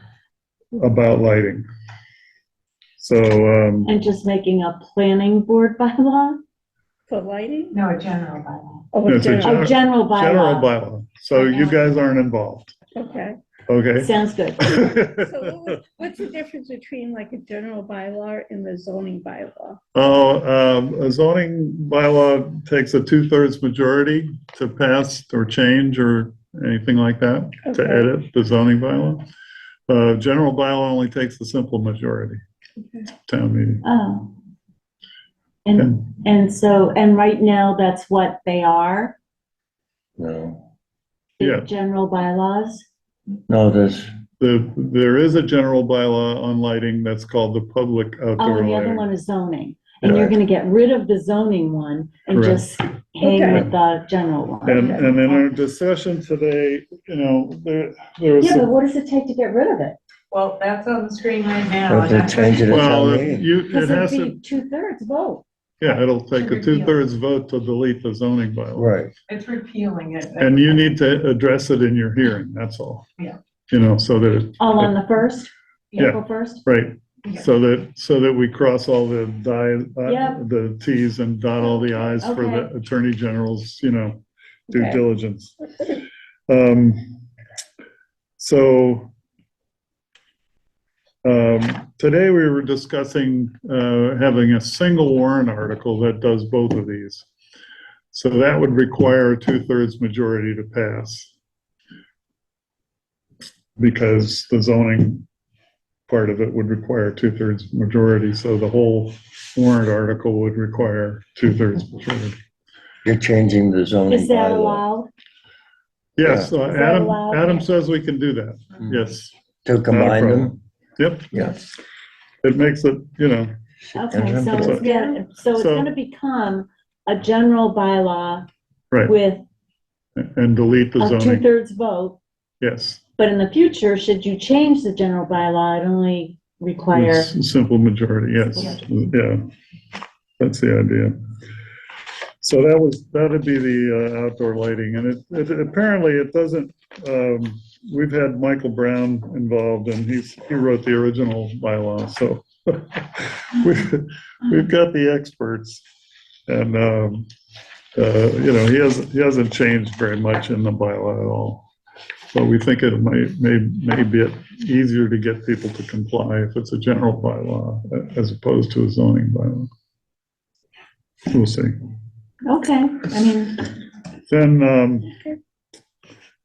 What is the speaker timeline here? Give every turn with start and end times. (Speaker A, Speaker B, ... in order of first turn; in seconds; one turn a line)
Speaker A: 0.8-1.6
Speaker A: 3.0-3.9
Speaker B: 3.9-6.4
Speaker C: 7.1-7.8
Speaker D: 7.7-8.8
Speaker C: 8.9-9.7
Speaker A: 9.1-12.7
Speaker B: 9.4-10.7
Speaker B: 11.3-11.8
Speaker C: 13.0-13.4
Speaker A: 13.7-15.8
Speaker B: 14.0-14.8
Speaker C: 14.7-19.8
Speaker A: 19.9-29.2
Speaker C: 27.7-28.1
Speaker A: 29.9-32.4
Speaker A: 33.3-33.8
Speaker B: 33.8-34.3
Speaker B: 35.7-39.2
Speaker A: 35.8-36.0
Speaker E: 40.2-40.6
Speaker B: 41.4-42.9
Speaker A: 41.4-41.7
Speaker E: 43.5-44.1
Speaker A: 44.4-49.1
Speaker B: 48.4-55.5
Speaker A: 50.0-50.3
Speaker A: 52.3-52.6
Speaker C: 53.2-53.7
Speaker A: 54.6-58.7
Speaker C: 54.7-55.1
Speaker B: 58.4-60.0
Speaker D: 60.3-62.8
Speaker E: 61.9-63.5
Speaker A: 62.7-64.3
Speaker B: 63.7-65.4
Speaker A: 65.8-68.9
Speaker D: 66.3-67.0
Speaker E: 68.8-69.1
Speaker D: 69.3-70.8
Speaker A: 70.4-73.0
Speaker A: 73.7-75.0
Speaker B: 74.6-76.6
Speaker A: 76.0-87.2
Speaker B: 80.1-80.4
Speaker B: 82.2-82.7
Speaker C: 84.7-85.0
Speaker A: 88.4-89.1
Speaker A: 91.2-97.3
Speaker A: 98.1-101.3
Speaker A: 103.8-105.2
Speaker A: 106.1-112.4
Speaker E: 113.0-114.8
Speaker B: 114.1-115.1
Speaker A: 116.2-119.3
Speaker E: 116.2-116.5
Speaker B: 116.7-117.7
Speaker E: 119.7-120.6
Speaker A: 119.9-121.3
Speaker E: 121.3-121.7
Speaker A: 122.4-123.5
Speaker E: 123.8-124.9
Speaker B: 124.0-128.5
Speaker A: 124.5-124.9
Speaker A: 125.5-125.9
Speaker B: 129.1-129.4
Speaker A: 130.2-131.4
Speaker B: 131.0-132.2
Speaker A: 132.6-133.0
Speaker B: 133.2-137.3
Speaker A: 136.9-139.4
Speaker A: 140.4-141.2
Speaker A: 142.4-155.8
Speaker A: 156.5-157.3
Speaker A: 158.0-161.7
Speaker A: 162.3-169.7
Speaker A: 171.3-171.7
Speaker B: 172.4-173.6
Speaker A: 174.3-175.2